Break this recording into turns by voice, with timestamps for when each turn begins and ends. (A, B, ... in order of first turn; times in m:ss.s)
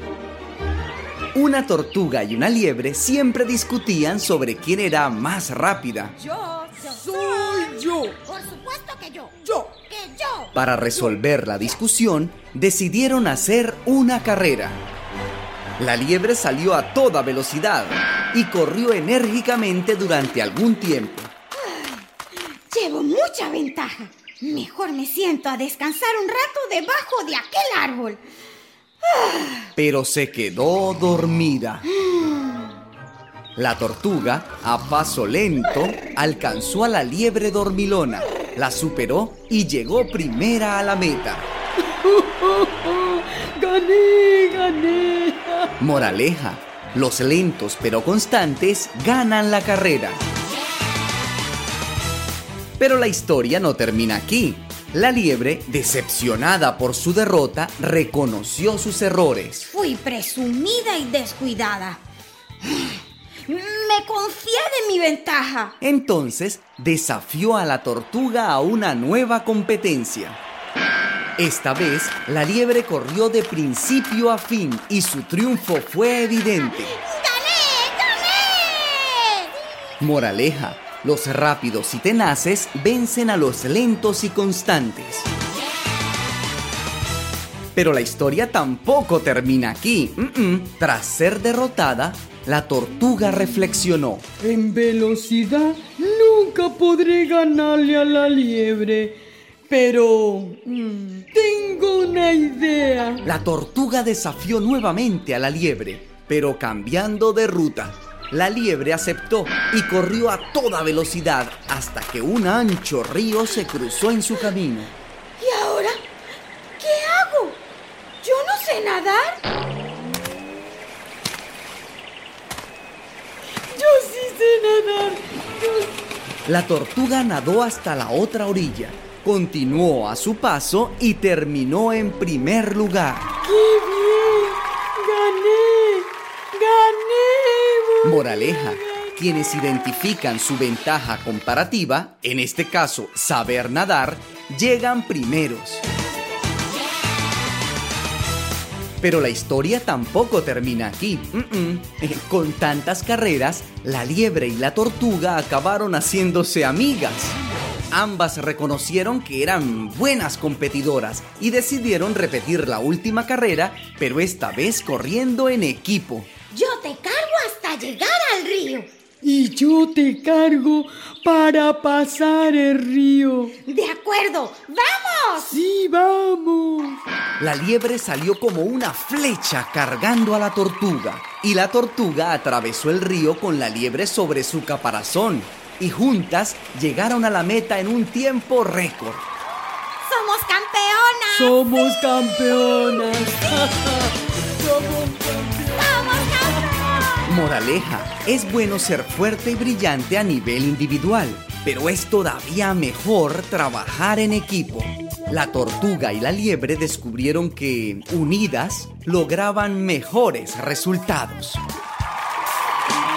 0:01.3-0:06.2 A
0:06.2-0:10.5 B
0:06.8-0:08.2 C
0:10.5-0:14.8 A
0:15.8-0:21.3 A
0:21.6-0:22.0 B
0:22.7-0:28.2 B
0:29.0-0:29.7 B
0:29.8-0:31.9 A
0:32.1-0:32.5 B
0:33.6-0:41.5 A
0:41.9-0:45.7 C
0:45.8-0:50.2 A
0:52.8-0:59.7 A
0:59.7-1:02.0 B
1:02.6-1:05.7 B
1:05.8-1:10.4 A
1:11.4-1:17.0 A
1:16.6-1:19.5 B
1:20.0-1:25.3 A
1:27.7-1:34.2 A
1:34.4-1:43.2 C
1:43.2-1:54.9 A
1:55.4-1:56.0 B
1:56.8-1:57.6 B
1:58.2-1:59.4 B
2:03.7-2:06.0 C
2:06.4-2:13.3 A
2:13.4-2:19.8 C
2:18.0-2:25.8 A
2:29.0-2:37.4 A
2:37.9-2:46.3 A
2:46.5-2:48.9 B
2:49.2-2:53.6 C
2:53.6-2:55.6 B
2:55.5-2:57.0 C
2:57.4-3:09.2 A
3:10.0-3:11.8 B
3:11.3-3:17.1 C
3:15.9-3:16.7 B
3:17.2-3:31.6 A